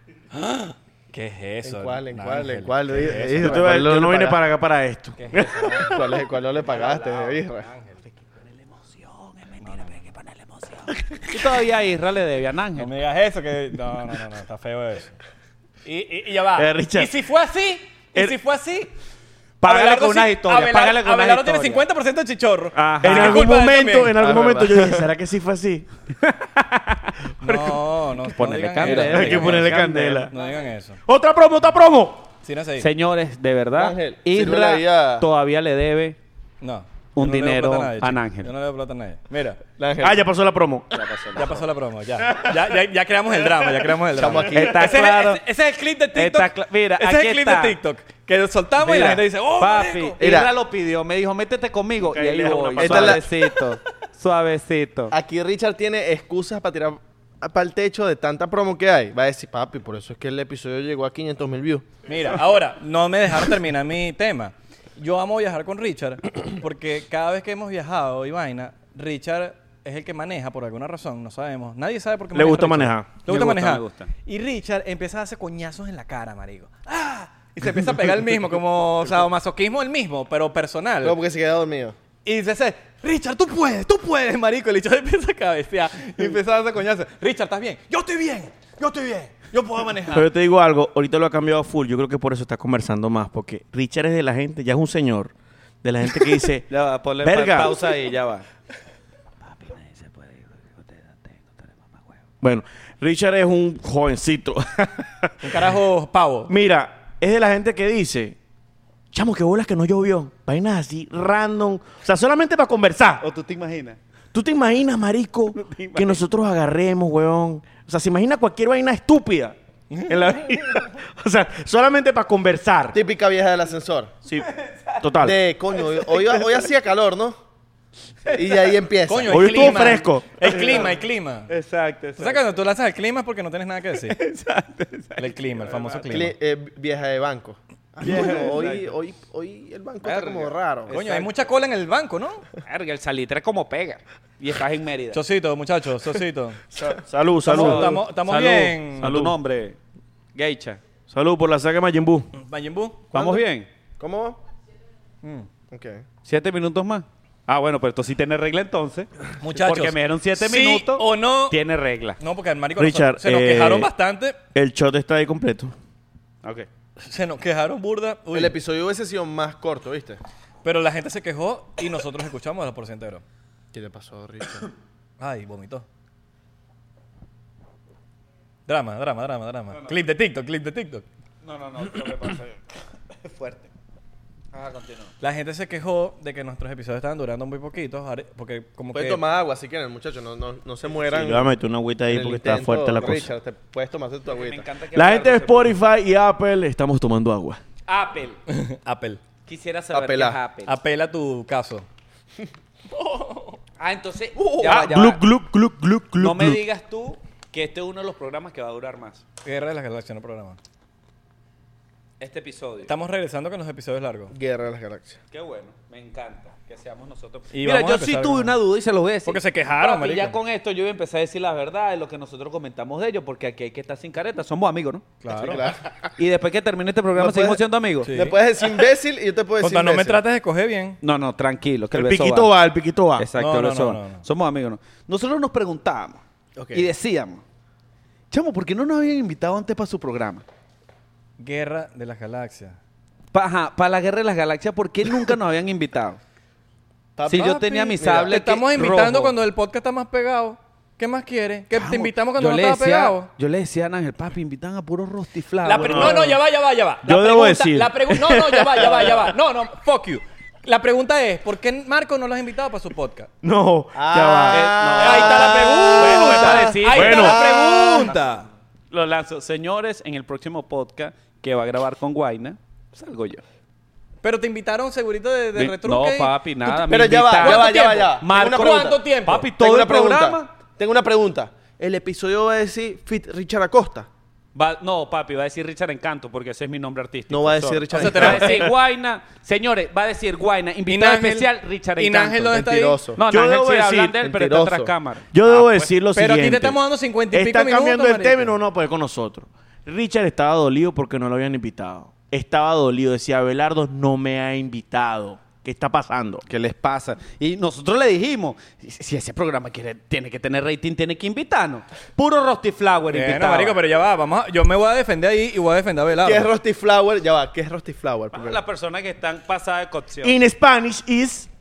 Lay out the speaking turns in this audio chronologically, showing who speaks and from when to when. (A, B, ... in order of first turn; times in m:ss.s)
0:00.3-0:03.8 A
0:01.6-0:04.4 B
0:03.4-0:05.9 C
0:05.2-0:06.0 A
0:05.8-0:07.7 B
0:06.6-0:08.0 A
0:08.2-0:12.9 D
0:09.6-0:10.0 A
0:12.8-0:15.2 A
0:15.8-0:18.9 A
0:16.5-0:17.1 C
0:19.6-0:21.8 D
0:19.6-0:24.2 A
0:22.7-0:23.4 D
0:23.0-0:25.9 C
0:24.2-0:25.0 B
0:26.2-0:30.4 D
0:27.4-0:31.0 A
0:28.8-0:30.3 C
0:31.0-0:32.2 C
0:32.4-0:32.9 A
0:32.8-0:36.2 D
0:33.7-0:35.2 B
0:36.6-0:39.6 A
0:37.2-0:38.5 D
0:39.8-0:40.2 B
0:40.0-0:41.0 C
0:40.9-0:41.6 D
0:41.3-0:50.2 A
0:44.1-0:44.9 B
0:44.5-0:45.4 D
0:46.1-0:47.8 D
0:48.8-0:55.1 D
0:50.2-0:50.5 B
0:52.0-0:53.2 C
0:52.8-0:53.2 B
0:55.1-1:01.9 B
1:02.1-1:21.2 A
1:12.3-1:13.2 C
1:13.2-1:14.1 D
1:21.0-1:22.0 B
1:22.2-1:30.3 A
1:30.1-1:36.7 C
1:36.7-1:38.4 D
1:37.2-1:37.8 C
1:39.5-1:42.0 D
1:42.4-1:45.7 C
1:45.4-1:46.5 A
1:46.5-1:48.4 C
1:49.1-1:53.2 C
1:53.2-1:54.0 D
1:54.3-2:03.0 C
1:55.6-1:56.2 D
2:02.9-2:04.1 B
2:04.4-2:05.0 D
2:05.0-2:05.4 C
2:05.2-2:07.4 B
2:05.8-2:06.6 D
2:08.2-2:08.8 D
2:08.3-2:09.9 B
2:09.1-2:11.5 A
2:09.3-2:10.7 C
2:10.5-2:10.9 D
2:11.5-2:12.4 D
2:12.2-2:14.2 A
2:14.1-2:16.2 D
2:15.2-2:16.3 A
2:16.1-2:20.9 B
2:18.0-2:18.9 D
2:20.0-2:21.5 D
2:20.9-2:22.4 A
2:22.6-2:25.2 D
2:25.1-2:26.6 A
2:27.0-2:28.0 C
2:27.4-2:29.2 A
2:27.5-2:29.8 D
2:29.0-2:29.4 C
2:30.3-2:30.8 D
2:31.1-2:32.3 C
2:32.3-2:33.1 A
2:33.1-2:33.7 D
2:33.1-2:33.4 B
2:34.0-2:34.4 B
2:35.2-2:35.5 A
2:35.7-2:36.0 B
2:36.2-2:42.2 D
2:39.4-2:41.6 A
2:42.2-2:44.4 A
2:42.8-2:43.9 C
2:44.5-2:45.7 C
2:46.4-2:46.7 D
2:47.0-2:48.5 A
2:48.3-2:50.2 B
2:50.6-2:53.2 A
2:53.7-2:54.7 B
2:55.2-2:55.8 A
2:58.7-3:01.0 A
3:01.4-3:02.6 D
3:03.2-3:03.7 D
3:04.5-3:05.1 D
3:05.2-3:09.2 A
3:08.9-3:11.5 B
3:11.0-3:13.3 C
3:12.1-3:14.7 B
3:14.2-3:15.7 D
3:14.9-3:17.6 C
3:17.9-3:18.4 D
3:18.5-3:19.2 A
3:19.5-3:20.7 D
3:19.9-3:20.4 B
3:20.6-3:21.8 A
3:22.9-3:23.6 A
3:23.8-3:25.2 D
3:24.6-3:26.6 C
3:26.2-3:29.2 D
3:29.4-3:30.6 A
3:32.2-3:32.9 D
3:32.9-3:34.3 A
3:34.3-3:35.2 B
3:35.3-3:45.0 D
3:37.5-3:38.6 A
3:39.2-3:40.4 A
3:45.2-3:45.7 A
3:45.3-3:45.9 B
3:46.2-3:48.2 D
3:47.2-3:50.2 B
3:48.0-3:48.4 A
3:49.6-3:51.0 A
3:51.0-3:52.5 D
3:51.9-3:53.3 C
3:53.2-3:56.2 D
3:53.4-3:54.2 A
3:56.7-3:57.4 D
3:58.3-4:00.4 D
4:01.4-4:02.8 A
4:03.3-4:06.2 D
4:07.2-4:08.4 B
4:07.3-4:09.3 D
4:07.3-4:13.3 A
4:11.7-4:16.2 D
4:15.6-4:23.3 A
4:15.8-4:16.3 C
4:17.0-4:19.3 C
4:23.4-4:27.4 C
4:23.9-4:28.1 B
4:24.5-4:28.3 D
4:25.0-4:28.4 A
4:28.9-4:33.4 D
4:34.2-4:36.3 A
4:35.6-4:40.5 D
4:36.6-4:39.0 B
4:37.4-4:39.5 A
4:39.5-4:44.1 B
4:44.5-4:52.6 D
4:47.3-4:48.7 B
4:47.9-4:48.7 A
4:50.9-4:53.0 A
4:52.5-4:53.2 B
4:53.2-4:55.9 D
4:53.3-4:54.2 C
4:54.2-4:54.9 B
4:55.3-4:56.8 C
4:56.1-4:58.5 A
4:57.3-5:06.4 C
5:06.5-5:13.8 D
5:13.1-5:16.5 A
5:16.2-5:18.6 B
5:18.3-5:20.4 D
5:20.2-5:21.5 C